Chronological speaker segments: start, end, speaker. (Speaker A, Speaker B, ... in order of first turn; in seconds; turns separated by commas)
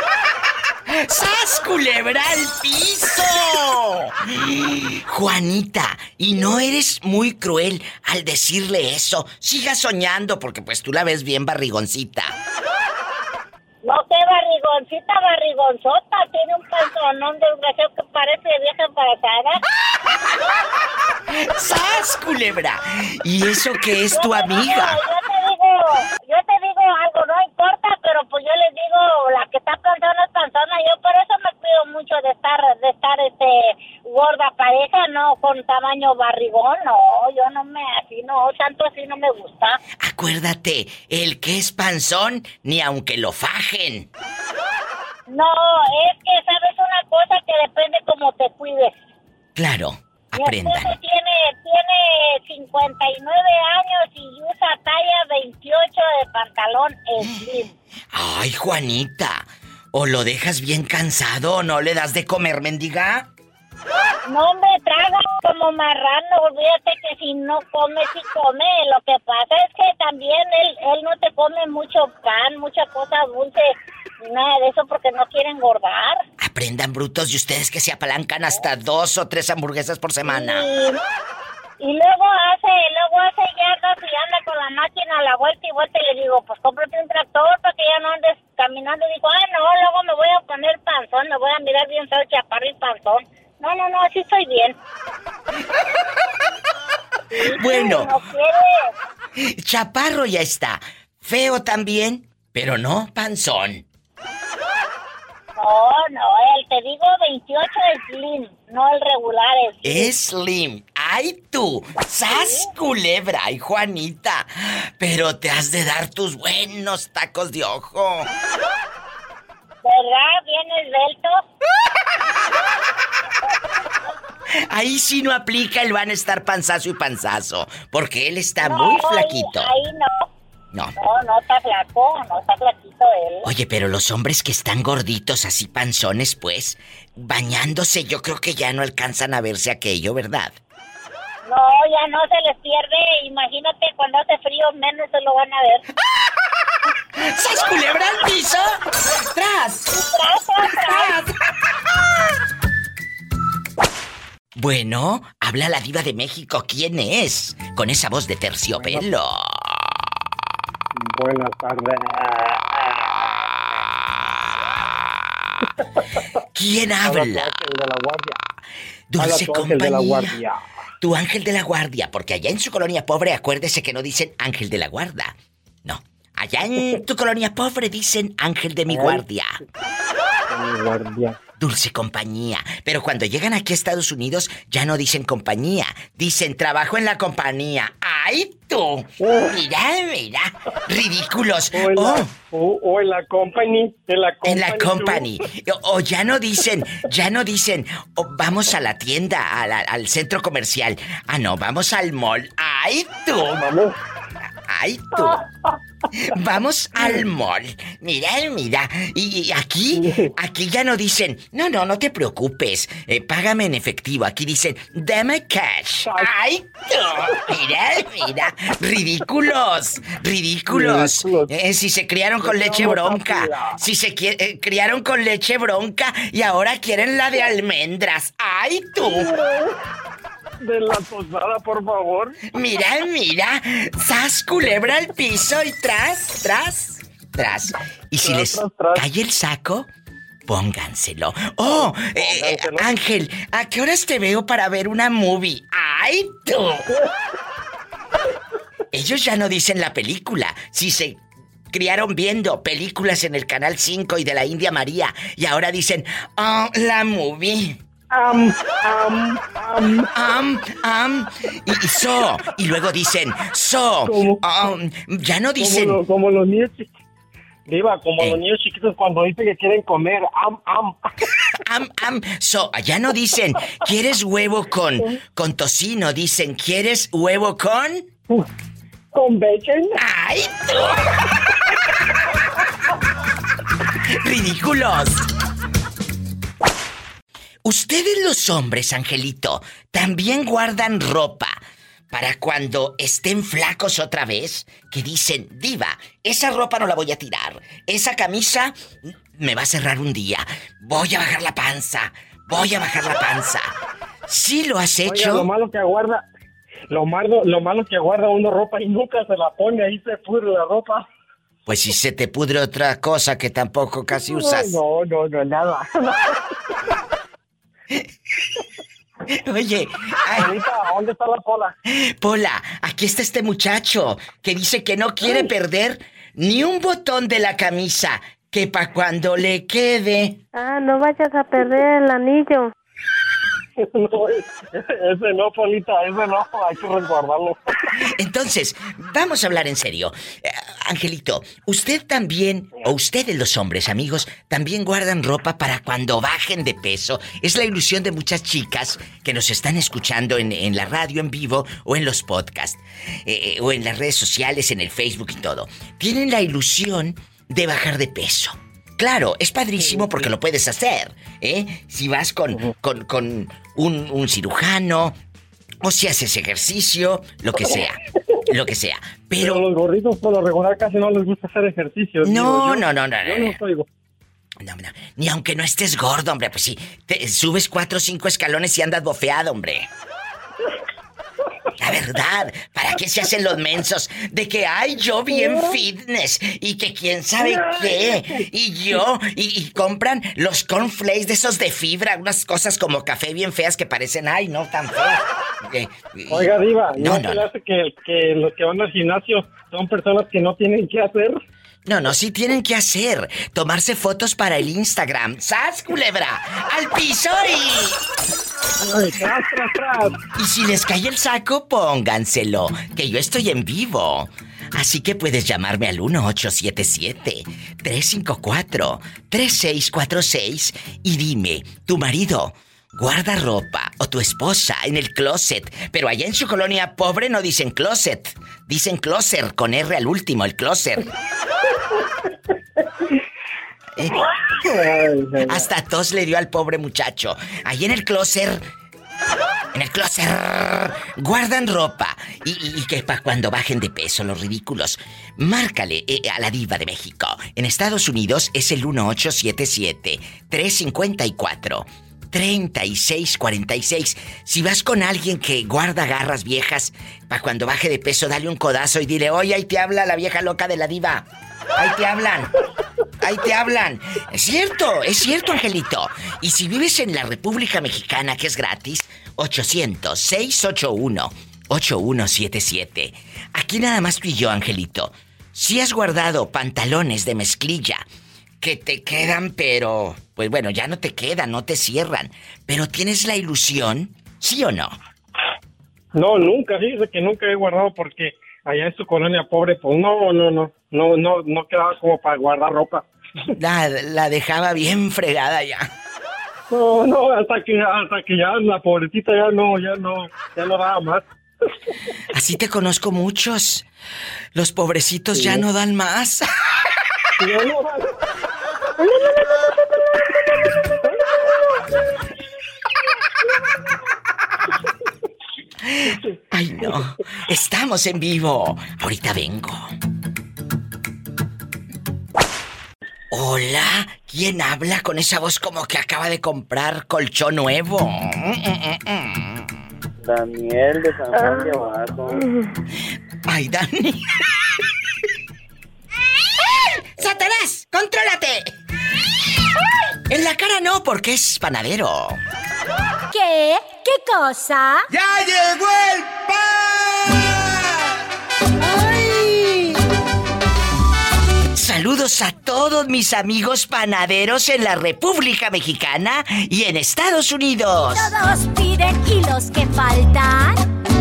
Speaker A: 0.9-12.3, Speaker B: 13.8-19.6, Speaker A: 21.3-25.0, Speaker B: 24.1-39.8, Speaker A: 40.0-44.1, Speaker B: 45.3-49.0, Speaker A: 49.5-50.9, Speaker B: 50.4-57.7, Speaker A: 58.1-63.3, Speaker B: 64.2-76.2, Speaker A: 76.4-80.6, Speaker B: 80.2-81.0, Speaker B: 81.8-94.8, Speaker B: 97.3-98.9, Speaker A: 97.5-98.1, Speaker A: 99.4-103.8, Speaker B: 105.5-110.1, Speaker A: 109.8-118.3, Speaker B: 112.3-112.7, Speaker B: 119.8-121.4, Speaker A: 124.7-129.7, Speaker B: 128.6-130.3, Speaker B: 131.0-133.5, Speaker A: 133.4-140.5, Speaker B: 141.4-145.8, Speaker A: 147.2-149.9, Speaker B: 149.9-151.1, Speaker A: 150.7-151.3, Speaker A: 154.5-159.9, Speaker C: 161.1-161.9, Speaker A: 166.5-167.6, Speaker C: 167.0-168.3, Speaker A: 169.1-170.4, Speaker C: 169.2-170.5, Speaker A: 171.0-175.3, Speaker A: 175.8-179.5, Speaker C: 180.5-181.3, Speaker A: 181.6-192.3, Speaker C: 191.7-195.3, Speaker A: 194.4-203.6, Speaker C: 203.5-203.9, Speaker A: 204.6-205.4, Speaker A: 206.3-229.3, Speaker C: 209.9-210.3, Speaker C: 220.7-221.5, Speaker C: 222.4-223.8, Speaker C: 229.0-229.7, Speaker C: 230.6-232.5, Speaker A: 232.5-239.9, Speaker C: 238.2-239.0, Speaker A: 240.5-246.9, Speaker C: 241.7-242.9, Speaker A: 248.9-257.8, Speaker C: 258.1-260.1, Speaker A: 260.1-266.0, Speaker C: 264.0-264.4, Speaker C: 265.6-266.9, Speaker C: 267.7-270.9, Speaker A: 271.6-278.1, Speaker C: 279.1-280.0, Speaker A: 279.9-281.1, Speaker A: 284.2-285.2, Speaker A: 287.6-291.6, Speaker A: 292.1-298.7, Speaker A: 299.3-303.7, Speaker A: 304.3-305.5, Speaker C: 305.1-306.2, Speaker C: 306.9-311.1, Speaker A: 311.6-314.8, Speaker C: 314.2-316.3, Speaker A: 319.4-320.5, Speaker C: 320.3-321.7, Speaker A: 321.9-330.4, Speaker D: 330.5-332.7, Speaker C: 333.8-337.6, Speaker A: 338.1-365.1, Speaker A: 365.8-369.6, Speaker C: 369.4-373.9, Speaker A: 372.2-373.6, Speaker A: 374.6-379.9, Speaker A: 381.8-397.5, Speaker C: 387.4-388.4, Speaker C: 396.3-401.4, Speaker A: 401.9-408.0, Speaker C: 408.8-410.2, Speaker A: 410.3-431.1, Speaker C: 434.6-435.6, Speaker A: 435.4-438.6, Speaker A: 439.7-462.5, Speaker A: 463.2-478.0, Speaker A: 478.6-484.9, Speaker C: 486.1-493.0, Speaker A: 493.5-495.9, Speaker C: 496.7-501.2, Speaker A: 502.3-503.9, Speaker A: 504.5-506.5, Speaker C: 505.3-505.6, Speaker C: 507.4-508.1, Speaker D: 509.0-510.0, Speaker A: 515.8-519.9, Speaker A: 523.3-529.7, Speaker E: 530.2-532.5, Speaker D: 531.3-531.7, Speaker A: 533.5-534.2, Speaker A: 536.8-538.7, Speaker A: 540.3-542.4, Speaker F: 543.3-545.1, Speaker A: 545.2-545.9, Speaker A: 549.0-549.9, Speaker A: 551.7-558.3, Speaker F: 558.0-560.8